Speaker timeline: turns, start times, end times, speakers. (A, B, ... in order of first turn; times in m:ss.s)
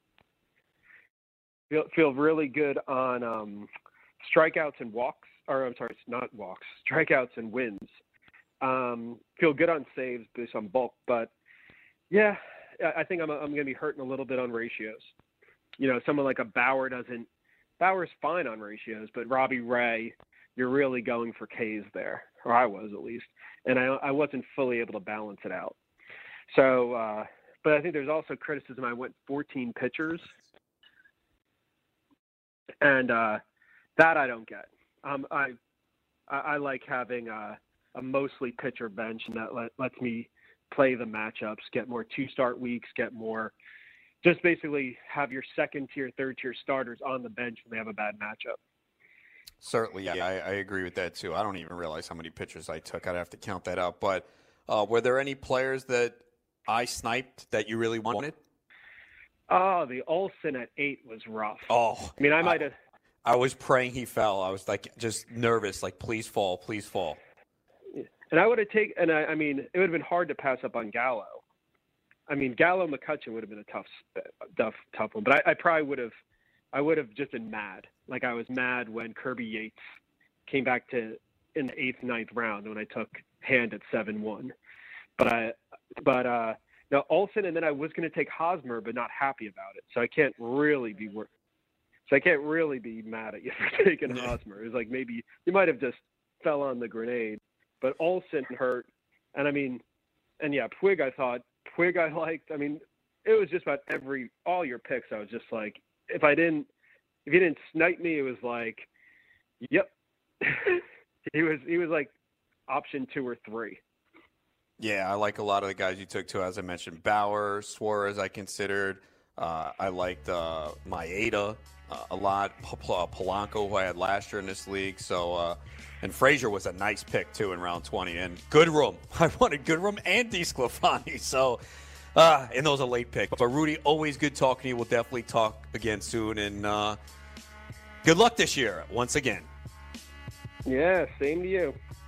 0:01.7-0:03.7 A
0:04.2-0:07.9 A
0:08.6-0:11.3 A
0:12.1-0:15.1 A
0:15.8-0:17.3 A
0:17.8-0:25.7 A
0:26.5-0:30.3 A
0:32.8-0:33.4 A
0:34.0-0:35.6 A
0:36.3-0:43.5 A
0:44.2-0:48.6 A
0:49.6-0:58.4 B
0:59.5-1:02.7 A
1:01.7-1:02.7 B
1:03.2-1:07.2 B
1:07.9-1:11.4 A
1:12.3-1:16.1 A
1:16.7-1:19.8 A
1:20.5-1:24.5 A
1:25.2-1:31.3 A
1:32.1-1:39.8 A
1:40.4-1:46.7 A
1:47.2-1:48.9 A
1:49.6-1:52.1 A
1:52.7-1:53.8 A
1:54.8-2:11.6 B
2:12.1-2:17.0 B
2:18.0-2:19.5 B
2:20.6-2:21.8 A